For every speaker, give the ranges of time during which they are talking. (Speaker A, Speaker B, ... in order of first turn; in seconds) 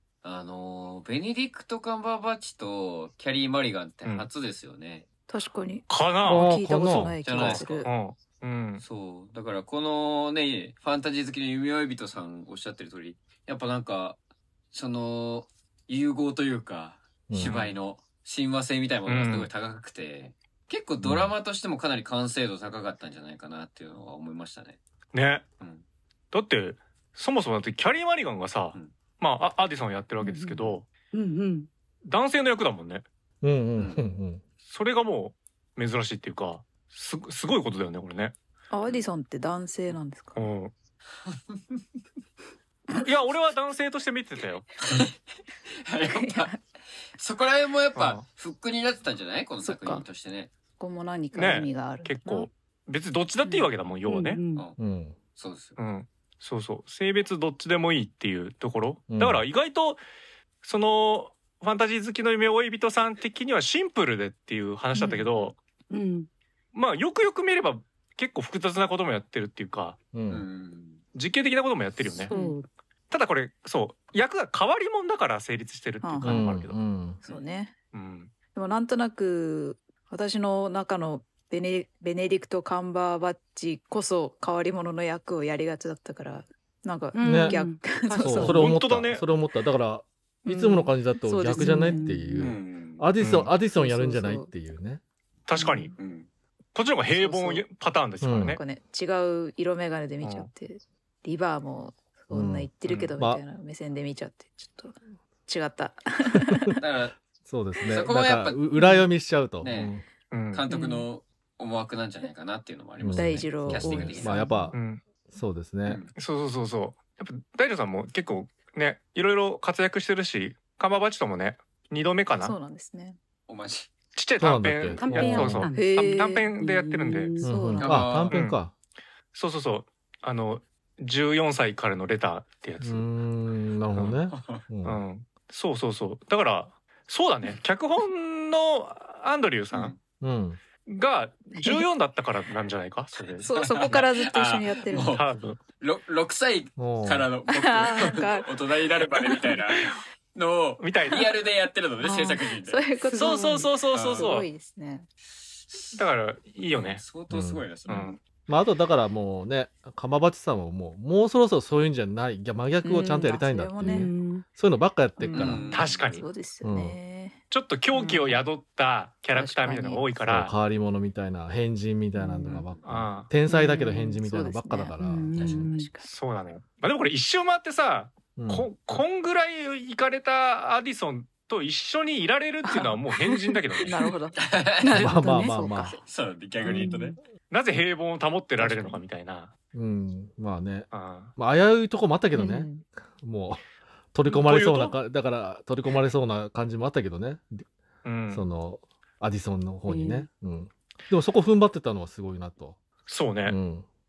Speaker A: 0.2-5.1, 7.2-7.9, 8.8-14.2, 14.7-24.8, 33.8-34.0, 41.3-41.8, 44.8-45.2, 45.7-46.5, 47.1-50.5, 54.5-55.8, 70.3-71.0, 92.4-93.1, 96.0-96.3, 106.8-107.2, 107.8-108.6, 109.6-110.0, 110.5-114.4, 115.8-116.1, 123.5-123.9, 127.8-128.4, 134.3-134.7, 139.7-140.0, 143.2-152.9, 153.9-154.3, 155.3-156.0, 156.7-158.1, 165.3-166.2, 175.4-175.7, 183.8-185.2, 186.0-187.2
Speaker B: 5.3-7.9, 30.2-30.8, 38.7-40.5, 46.1-46.6, 49.6-50.0, 50.8-52.5, 53.4-53.7, 65.0-65.3, 72.3-72.6, 76.0-76.5, 77.2-77.8, 78.5-88.7, 90.5-92.3, 93.7-94.5, 95.5-96.0, 97.1-97.6, 98.5-105.0, 105.5-106.8, 108.8-109.0, 110.7-111.0, 113.1-114.8, 122.4-123.2, 125.8-126.5, 127.4-128.1, 141.6-141.8, 143.4-145.2, 147.5-148.6, 152.6-155.1, 157.9-158.1, 162.8-164.1, 165.2-167.4, 167.9-168.4, 169.3-170.1, 172.2-172.7, 173.7-176.1, 182.7-186.0, 186.6-187.1, 188.6-189.0, 192.3-192.9
Speaker C: 5.9-8.8, 17.4-17.7, 19.1-19.5, 25.1-25.5, 26.3-30.9, 32.0-33.0, 34.6-38.4, 40.4-40.7, 42.9-44.7, 48.0-48.3, 51.3-54.4, 55.8-60.0, 60.6-65.6, 66.7-70.0, 71.1-72.3, 73.1-76.8, 77.9-78.3, 88.4-89.2, 93.2-93.5, 95.5-95.9, 96.8-98.6, 100.2-100.5, 110.3-110.7, 114.7-115.0, 116.2-122.5, 124.2-127.3, 128.3-128.6, 129.3-133.1, 134.8-139.9, 140.9-143.9, 145.0-145.6, 150.8-151.3, 153.1-154.5, 156.0-157.0, 157.9-158.2, 165.7-166.2, 167.5-170.5, 172.8-173.3, 176.0-184.0, 187.5-189.5, 190.9-191.3, 194.3-194.9, 198.0-198.4, 203.1-203.6
Speaker D: 6.2-7.2, 17.3-17.6, 21.0-21.3, 33.4-34.4, 54.8-55.2, 59.1-59.5, 70.1-70.5, 76.2-77.2, 87.2-87.6, 88.2-95.0, 98.2-98.6, 102.3-103.4, 107.4-110.0, 113.0-116.0, 124.4-125.7, 127.4-128.7, 132.8-135.0, 140.2-140.6, 146.8-147.3, 157.3-157.7, 158.5-165.7, 166.6-167.0, 170.2-175.6, 178.4-178.7, 185.0-186.0, 189.7-197.7, 198.3-202.8, 203.4-203.9
Speaker E: 31.1-31.7, 54.1-54.7, 65.9-66.3, 72.3-72.7, 87.1-88.7, 91.5-92.5, 110.7-111.0, 125.0-127.6, 152.0-152.4, 153.0-153.6, 163.8-164.4, 173.5-174.1, 175.0-175.9, 185.2-185.5, 186.7-186.9, 199.9-200.3